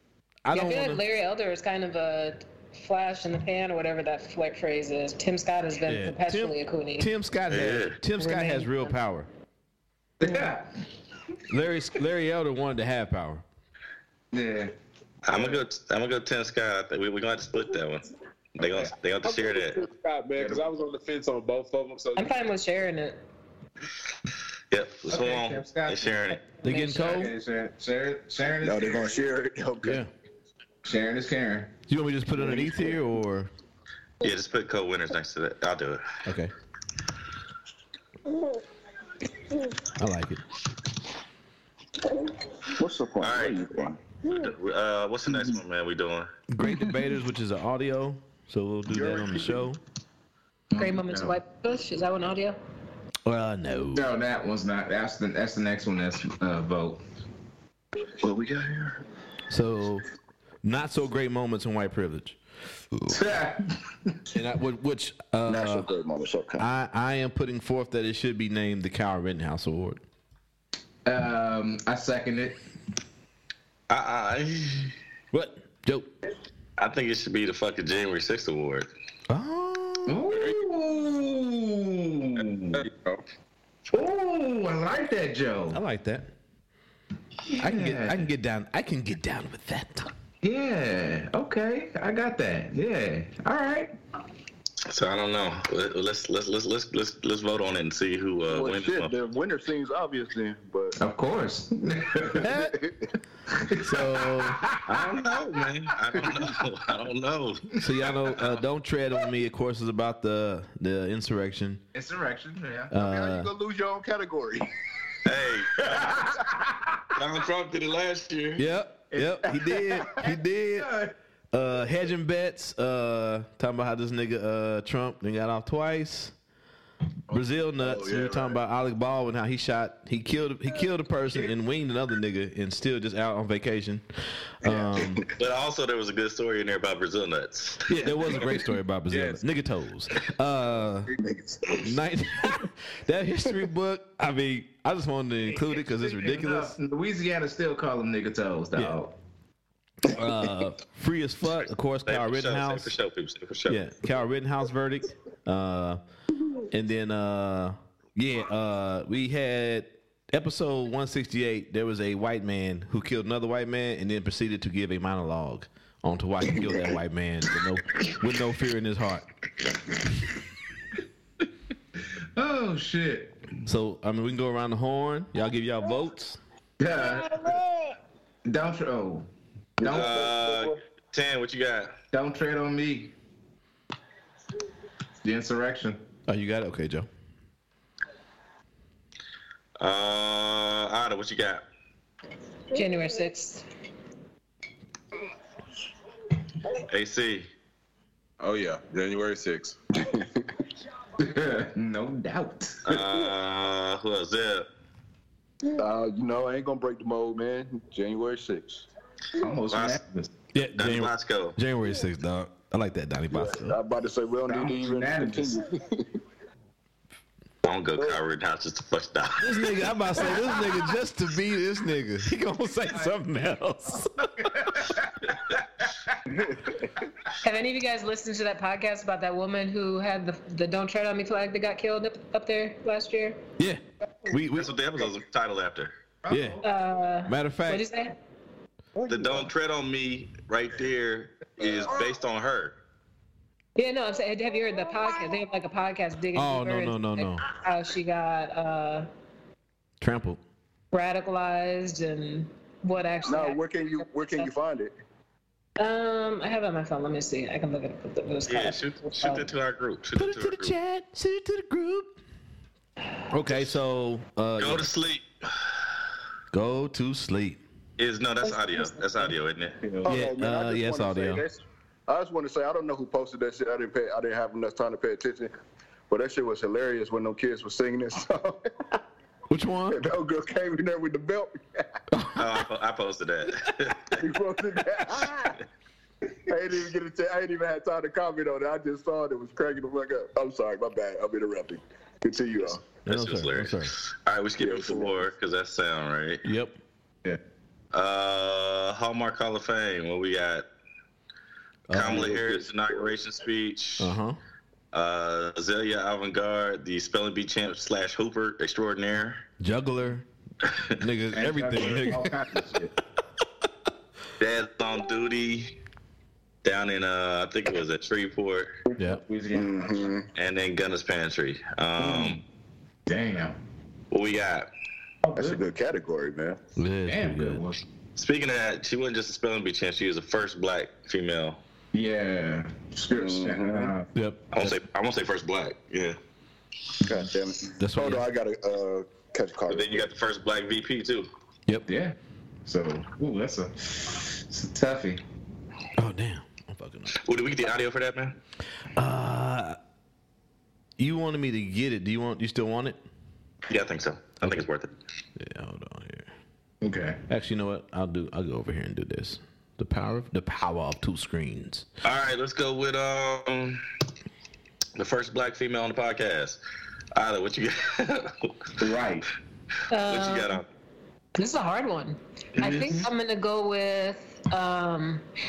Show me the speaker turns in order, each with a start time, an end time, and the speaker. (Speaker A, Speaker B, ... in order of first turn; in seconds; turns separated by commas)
Speaker A: 0.5-1.0, Speaker B: 0.5-7.1, Speaker A: 5.9-9.3, Speaker C: 7.5-8.0, Speaker B: 8.2-8.9, Speaker D: 10.2-10.7, Speaker A: 11.5-13.4, Speaker D: 14.3-14.7, Speaker C: 15.2-19.9, Speaker E: 19.2-22.4, Speaker B: 22.2-23.2, Speaker C: 24.7-26.4, Speaker D: 25.1-29.2, Speaker B: 26.6-27.1, Speaker A: 26.6-27.3, Speaker F: 28.6-30.0, Speaker A: 29.8-30.1, Speaker D: 30.8-31.7, Speaker A: 31.9-33.5, Speaker F: 32.5-32.8, Speaker C: 34.2-36.0, Speaker A: 36.2-36.5, Speaker A: 40.0-40.4, Speaker F: 42.7-44.0, Speaker C: 43.2-43.7, Speaker C: 44.2-46.3, Speaker A: 46.5-49.8, Speaker F: 48.9-49.7, Speaker D: 50.7-51.4, Speaker B: 50.8-52.6, Speaker A: 53.3-54.1, Speaker D: 53.9-57.0, Speaker F: 58.2-59.0, Speaker A: 59.5-60.0, Speaker A: 60.6-62.4, Speaker A: 62.9-63.2, Speaker D: 63.1-64.2, Speaker A: 64.3-65.9, Speaker F: 65.5-66.7, Speaker A: 66.6-70.0, Speaker D: 71.0-72.6, Speaker C: 73.9-74.9, Speaker A: 75.3-76.1, Speaker C: 76.8-78.9, Speaker A: 79.3-80.2, Speaker D: 80.1-82.8, Speaker E: 82.8-83.2, Speaker D: 83.9-85.8, Speaker A: 85.7-86.3, Speaker D: 87.5-88.3, Speaker A: 87.6-90.1, Speaker D: 90.4-93.9, Speaker C: 94.9-99.1, Speaker F: 98.5-101.0, Speaker D: 101.0-102.5, Speaker A: 102.4-102.8, Speaker D: 103.5-105.1, Speaker A: 103.8-104.6, Speaker C: 104.9-107.7, Speaker D: 106.2-106.5, Speaker A: 107.8-111.8, Speaker D: 111.9-113.0, Speaker A: 112.9-113.5, Speaker F: 113.0-114.7, Speaker C: 115.2-115.8, Speaker D: 115.8-117.0, Speaker C: 117.2-118.7, Speaker A: 118.6-120.9, Speaker D: 119.1-121.1, Speaker A: 121.5-126.3, Speaker A: 127.3-134.1, Speaker F: 127.8-128.6, Speaker A: 134.6-135.2, Speaker F: 134.7-135.3, Speaker C: 135.4-137.8, Speaker A: 137.9-141.1, Speaker E: 139.1-139.4, Speaker F: 141.1-142.0, Speaker A: 141.8-146.8, Speaker D: 145.6-149.1, Speaker A: 150.1-152.9, Speaker C: 152.1-153.8, Speaker A: 153.7-156.0, Speaker A: 156.7-169.3, Speaker D: 172.4-173.3, Speaker A: 173.7-176.4, Speaker D: 176.8-177.5, Speaker D: 178.4-179.3, Speaker F: 179.8-180.8, Speaker D: 179.8-180.1, Speaker C: 179.9-181.9, Speaker D: 182.1-183.1, Speaker D: 185.2-186.0, Speaker A: 186.3-187.1, Speaker C: 189.8-191.6, Speaker B: 192.7-193.6, Speaker C: 196.9-197.5, Speaker E: 198.4-199.8, Speaker F: 200.0-200.4, Speaker D: 201.2-203.0, Speaker C: 202.9-204.7, Speaker F: 205.8-208.9, Speaker D: 209.4-210.3, Speaker C: 209.7-210.0, Speaker A: 210.5-213.8, Speaker C: 210.8-211.6, Speaker F: 213.3-216.1, Speaker D: 214.5-215.6, Speaker C: 217.6-219.5, Speaker A: 219.4-224.2, Speaker D: 224.3-226.1, Speaker F: 226.4-226.9, Speaker B: 227.4-233.4, Speaker A: 233.6-234.7, Speaker C: 234.6-235.9, Speaker D: 236.2-236.6, Speaker A: 236.3-236.6, Speaker B: 236.6-238.2, Speaker A: 237.3-237.9, Speaker C: 239.1-242.8, Speaker B: 243.8-249.1, Speaker A: 246.3-247.4, Speaker A: 250.0-250.4, Speaker B: 250.9-254.5, Speaker F: 253.2-254.9, Speaker B: 255.8-259.5, Speaker C: 258.5-260.8, Speaker A: 260.2-262.2, Speaker A: 263.3-264.9, Speaker C: 264.6-265.3, Speaker A: 266.5-267.6, Speaker C: 268.0-269.8, Speaker B: 268.4-269.3, Speaker D: 269.8-270.1, Speaker F: 270.0-275.5, Speaker A: 270.1-271.4, Speaker F: 276.1-278.6, Speaker A: 279.5-280.0, Speaker F: 279.9-281.6, Speaker A: 282.1-282.6, Speaker C: 282.4-284.2, Speaker F: 284.2-285.6, Speaker F: 286.5-292.9, Speaker A: 293.1-293.9, Speaker C: 293.1-296.4, Speaker F: 294.6-295.3, Speaker A: 296.4-296.8, Speaker C: 297.9-300.7, Speaker A: 301.9-302.3, Speaker C: 301.9-304.1, Speaker F: 302.0-303.1, Speaker A: 304.0-304.4, Speaker C: 304.9-309.4, Speaker A: 309.6-310.3, Speaker A: 311.0-312.4, Speaker D: 311.3-312.9, Speaker C: 314.4-315.8, Speaker C: 316.6-318.7, Speaker D: 318.9-319.9, Speaker F: 319.5-320.2, Speaker C: 320.4-322.4, Speaker D: 322.0-322.4, Speaker D: 323.1-323.6, Speaker C: 324.1-324.7, Speaker D: 325.2-325.6, Speaker F: 325.4-326.6, Speaker A: 326.8-327.6, Speaker D: 327.1-327.8, Speaker C: 328.2-331.6, Speaker D: 331.9-334.1, Speaker F: 333.1-333.9, Speaker A: 334.1-334.8, Speaker C: 334.5-336.2, Speaker F: 337.1-340.1, Speaker A: 337.8-338.2, Speaker C: 339.7-341.3, Speaker D: 341.9-345.2, Speaker A: 346.0-347.2, Speaker C: 347.2-348.4, Speaker A: 349.0-349.8, Speaker A: 351.0-353.0, Speaker C: 353.7-354.9, Speaker A: 355.4-356.3, Speaker D: 356.8-357.2, Speaker A: 357.3-361.9, Speaker C: 362.0-363.8, Speaker C: 365.0-366.6, Speaker C: 367.1-368.5, Speaker D: 368.8-369.3, Speaker B: 369.9-370.6, Speaker C: 370.1-370.6, Speaker B: 371.4-375.2, Speaker D: 372.6-373.1